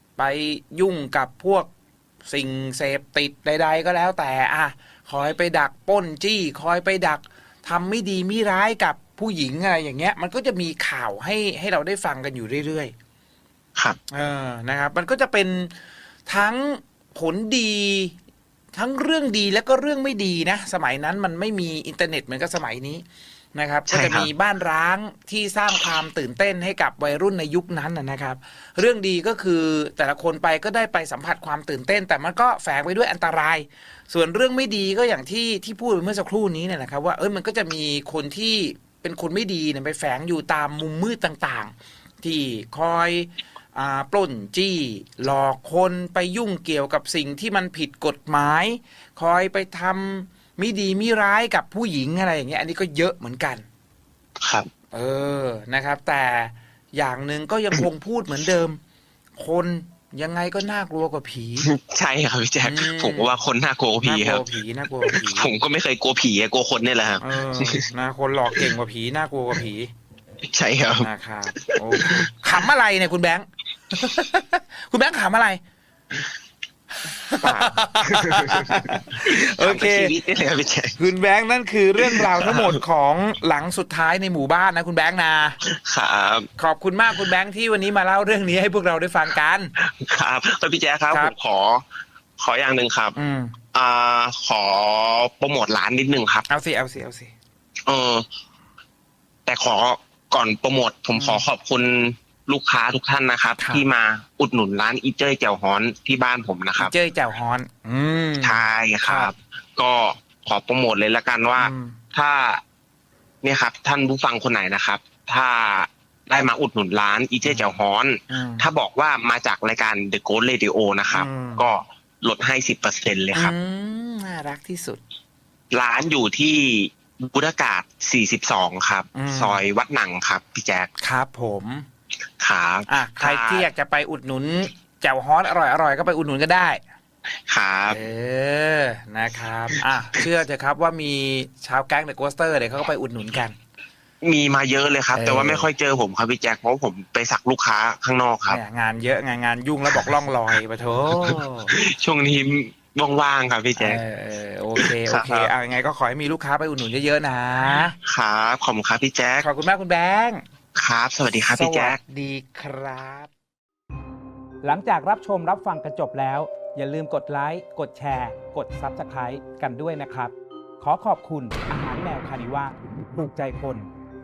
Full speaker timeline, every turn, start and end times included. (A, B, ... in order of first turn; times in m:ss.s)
0:00.2-0:01.7 A
0:02.2-0:12.9 A
0:14.1-0:18.1 A
0:18.7-0:23.0 A
0:23.5-0:53.6 A
0:23.9-0:24.3 B
0:54.4-0:54.7 B
0:54.9-0:58.8 A
0:59.4-1:01.7 A
1:01.6-1:04.4 B
1:02.6-1:03.3 A
1:04.0-1:05.5 A
1:05.0-1:07.9 B
1:07.2-1:09.9 A
1:10.4-1:12.6 B
1:11.0-1:15.6 A
1:17.0-1:20.1 A
1:17.4-1:21.0 B
1:21.0-1:25.6 A
1:22.0-1:22.8 B
1:25.6-1:26.5 B
1:26.6-1:29.7 A
1:29.8-1:31.8 B
1:32.4-1:33.1 B
1:33.1-1:33.6 A
1:33.7-1:36.5 B
1:36.5-1:37.3 A
1:37.9-1:38.2 B
1:39.4-1:46.9 B
1:41.1-1:41.4 A
1:43.6-1:43.8 A
1:46.8-1:49.3 A
1:48.4-1:52.6 B
1:51.6-1:52.0 A
1:53.4-2:03.5 B
1:57.4-1:58.7 A
2:01.1-2:01.6 A
2:03.3-2:05.0 A
2:05.7-2:10.9 B
2:09.1-2:09.6 A
2:11.0-2:11.8 A
2:12.4-2:13.7 B
2:12.9-2:16.8 A
2:17.5-2:18.0 B
2:17.9-2:23.6 A
2:24.2-2:28.6 B
2:25.1-2:25.7 A
2:28.5-2:31.7 A
2:31.1-2:34.0 B
2:33.8-2:38.0 A
2:34.8-2:35.5 B
2:38.0-2:39.5 B
2:39.4-2:40.4 A
2:40.8-2:42.0 B
2:41.4-2:43.3 A
2:44.6-2:53.9 C
2:44.7-2:45.9 A
2:46.5-2:47.7 A
2:51.6-2:52.0 A